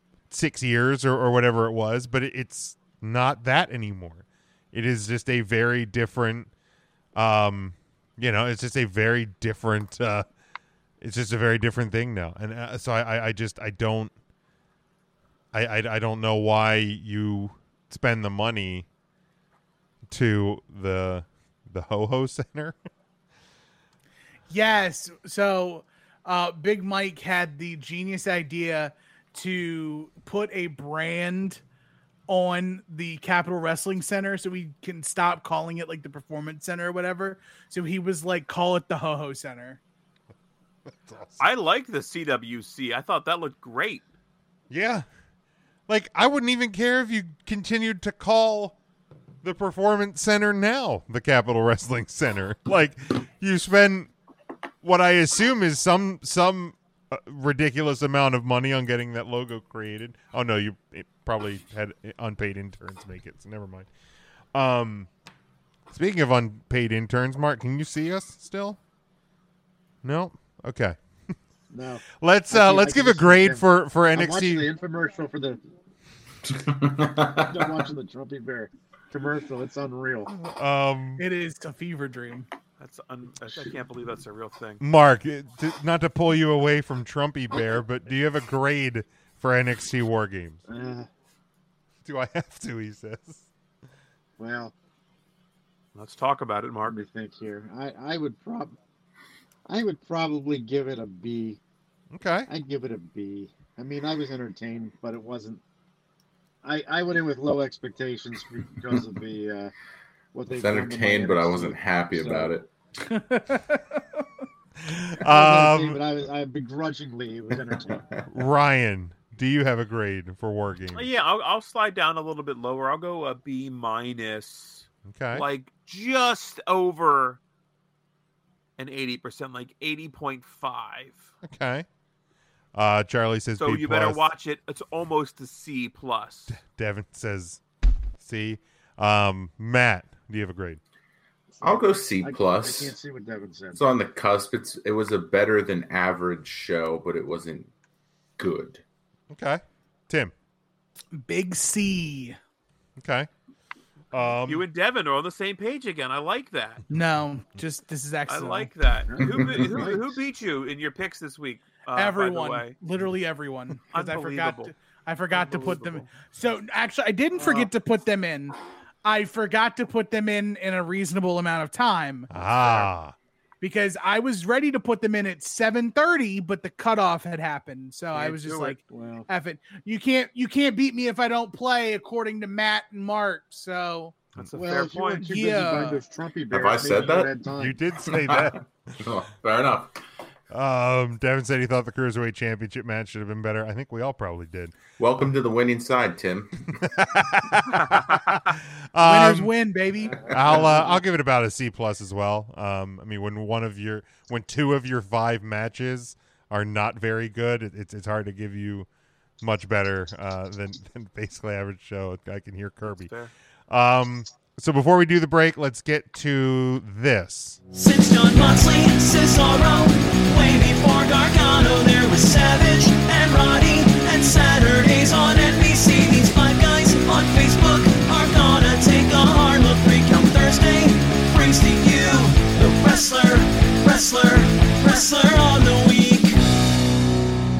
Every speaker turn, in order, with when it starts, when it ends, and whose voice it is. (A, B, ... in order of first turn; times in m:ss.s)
0:00.3-0:06.5 A
0:07.1-0:10.2 A
0:11.0-0:14.1 A
0:15.5-0:18.8 A
0:20.1-0:22.8 A
0:24.5-0:31.6 B
0:32.3-0:39.8 B
0:41.0-0:41.4 A
0:41.4-0:44.0 C
0:44.7-0:45.0 A
0:45.9-0:48.8 A
0:49.4-0:54.1 A
0:54.8-1:03.9 A
1:04.5-1:05.1 A
1:05.9-1:08.8 A
1:10.0-1:11.0 A
1:11.7-1:15.6 D
1:12.2-1:14.7 A
1:16.5-1:17.8 E
1:17.4-1:20.3 D
1:20.3-1:21.2 A
1:21.2-1:22.5 B
1:22.8-1:24.8 C
1:24.8-1:30.6 A
1:30.7-1:31.1 D
1:32.0-1:33.4 A
1:34.4-1:34.7 D
1:35.9-1:37.0 C
1:36.8-1:38.8 D
1:39.7-1:41.6 D
1:42.1-1:42.5 A
1:42.5-1:45.6 D
1:46.6-1:49.7 D
1:50.3-1:52.5 D
1:50.5-1:52.7 E
1:53.1-1:54.0 B
1:54.8-1:56.0 A
1:55.2-1:58.0 D
1:57.6-1:58.3 E
1:58.3-2:01.1 A
2:00.9-2:07.4 C
2:05.1-2:05.4 A
2:08.8-2:11.3 C
2:11.4-2:11.8 A
2:12.7-2:14.2 A
2:13.6-2:16.6 C
2:16.5-2:17.6 A
2:18.2-2:20.8 A
2:21.6-2:22.9 E
2:21.6-2:23.8 D
2:23.7-2:27.7 E
2:28.4-2:28.8 E
2:29.3-2:30.3 A
2:31.1-2:32.4 B
2:33.0-2:33.3 A
2:34.1-2:34.6 A
2:34.4-2:36.8 C
2:36.9-2:38.7 B
2:38.3-2:42.8 C
2:39.1-2:40.0 D
2:41.9-2:52.3 B
2:43.9-2:44.7 C
2:45.3-2:46.1 C
2:47.3-2:47.7 D
2:52.3-2:53.1 A
2:53.6-3:04.2 B
2:58.1-2:59.3 D
3:04.4-3:05.3 C
3:04.5-3:07.8 D
3:05.2-3:06.0 B
3:06.5-3:07.3 E
3:07.6-3:08.7 A
3:08.0-3:10.0 E
3:10.5-3:14.7 A
3:15.0-3:16.7 E
3:16.9-3:19.5 A
3:17.7-3:18.5 C
3:19.0-3:20.7 B
3:20.0-3:21.0 D
3:20.2-3:28.9 A
3:29.4-3:33.1 A
3:32.8-3:33.3 C
3:33.7-3:37.6 A
3:37.7-3:56.4 F